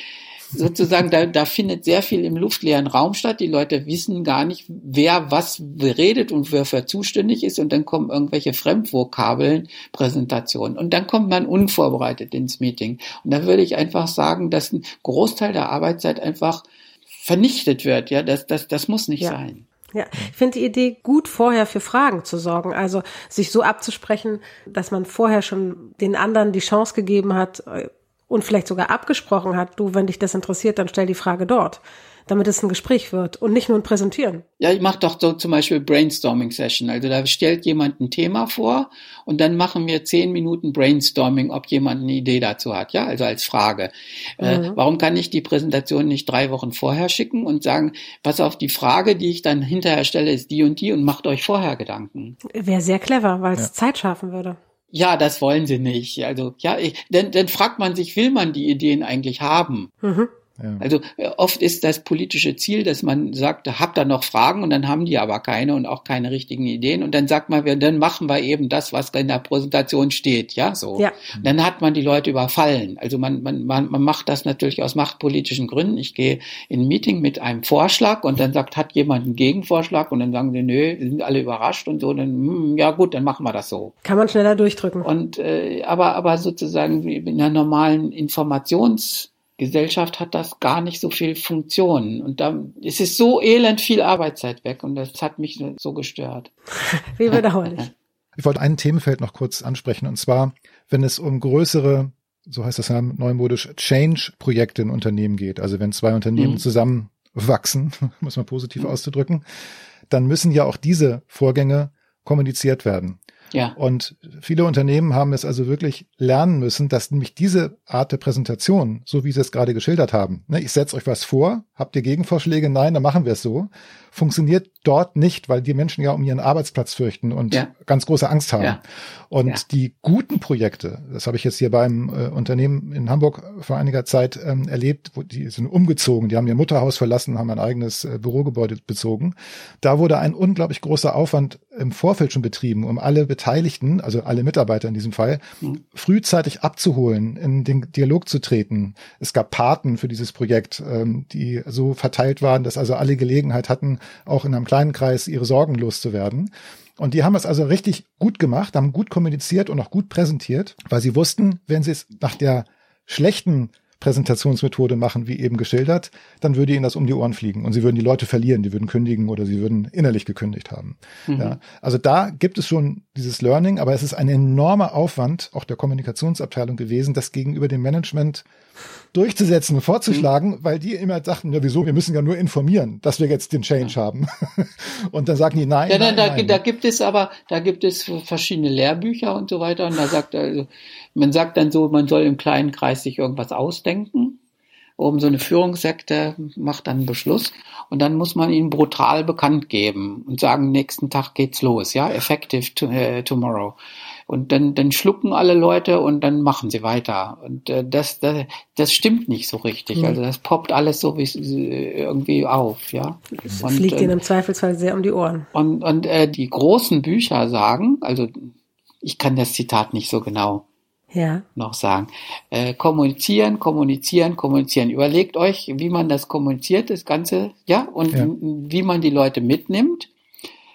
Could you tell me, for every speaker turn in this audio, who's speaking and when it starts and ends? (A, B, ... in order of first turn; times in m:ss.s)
0:00.5-0:19.6 A
0:19.9-0:34.4 B
0:34.6-0:52.4 A
0:44.4-0:44.8 B
0:52.5-0:54.6 B
0:54.9-0:59.9 A
1:00.0-1:00.3 B
1:00.6-1:00.8 C
1:00.8-1:23.9 A
1:24.0-1:25.1 B
1:25.0-1:36.5 A
1:36.9-1:37.9 B
1:38.4-1:49.4 C
1:46.4-1:46.6 A
1:50.1-1:53.2 C
1:53.8-2:25.4 C
2:25.9-2:58.4 C
2:51.3-2:51.6 A
2:59.1-3:06.6 C
3:05.9-3:14.4 A
3:15.0-3:23.8 A
3:24.3-3:34.2 A
3:33.6-3:35.5 B
3:35.5-3:40.6 A
3:41.1-3:41.4 B
3:41.6-3:50.1 A